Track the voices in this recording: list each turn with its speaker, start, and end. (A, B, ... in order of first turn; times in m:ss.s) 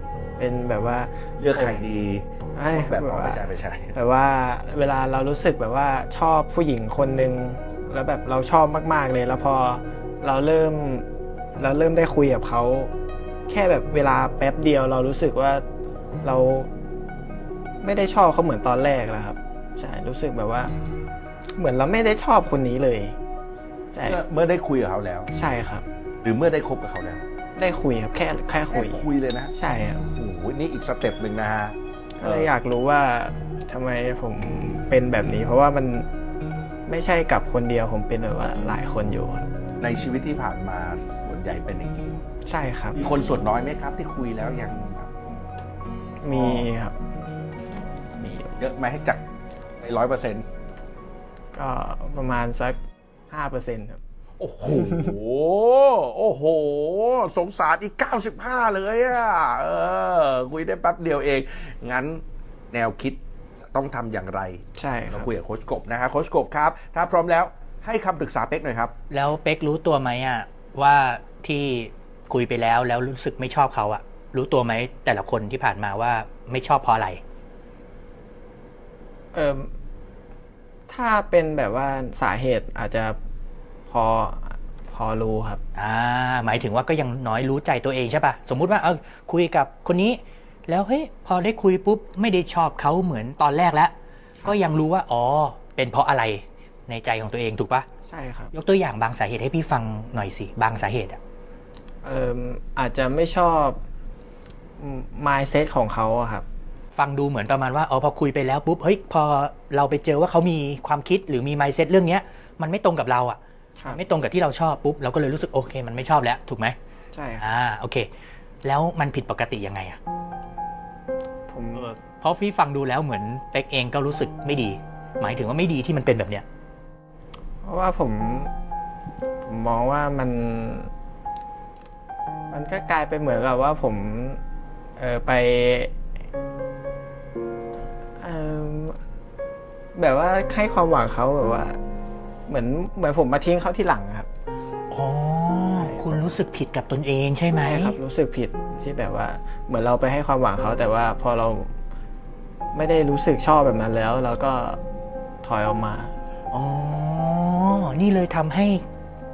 0:00.4-0:01.8 A
0:01.4-0:03.9 B
0:02.5-0:12.9 A
0:13.5-0:15.6 A
0:16.2-0:16.7 A
0:17.8-0:20.7 A
0:21.6-0:23.2 A
0:23.9-0:24.2 A
0:24.0-0:25.3 B
0:25.3-0:25.8 A
0:26.2-0:27.2 B
0:27.6-0:30.0 A
0:28.7-0:29.5 B
0:30.1-0:32.5 B
0:32.2-0:36.1 A
0:36.9-0:39.5 A
0:39.8-0:42.0 B
0:42.4-0:43.0 A
0:43.0-0:45.2 B
0:46.2-0:47.0 A
0:46.3-0:46.7 B
0:48.1-0:48.6 A
0:48.6-0:49.2 B
0:49.8-0:50.4 B
0:51.5-0:52.8 A
0:53.3-0:54.0 A
0:54.4-1:03.2 B
0:54.7-0:55.1 A
1:03.7-1:08.9 B
1:04.8-1:05.3 A
1:09.1-1:17.2 C
1:19.3-1:19.7 A
1:20.9-1:23.2 A
1:23.9-1:25.6 A
1:25.7-1:33.9 C
1:34.4-1:37.8 C
1:38.1-1:38.5 A
1:38.5-1:41.2 C
1:42.0-1:43.8 A
1:44.8-1:46.4 A
1:46.9-1:56.7 C
1:57.1-1:57.5 A
1:57.4-1:58.1 C
1:58.6-2:00.0 C
2:01.5-2:01.9 A
2:01.7-2:06.4 C
2:07.6-2:08.5 A
2:09.4-2:10.9 A
2:12.5-2:14.4 A
2:15.0-2:15.9 A
2:18.2-2:19.0 A
2:19.9-2:21.8 A
2:22.5-2:24.3 A
2:24.9-2:28.0 C
2:25.7-2:26.4 A
2:27.6-2:31.7 A
2:32.7-2:34.8 A
2:35.4-2:36.2 A
2:36.5-2:38.8 C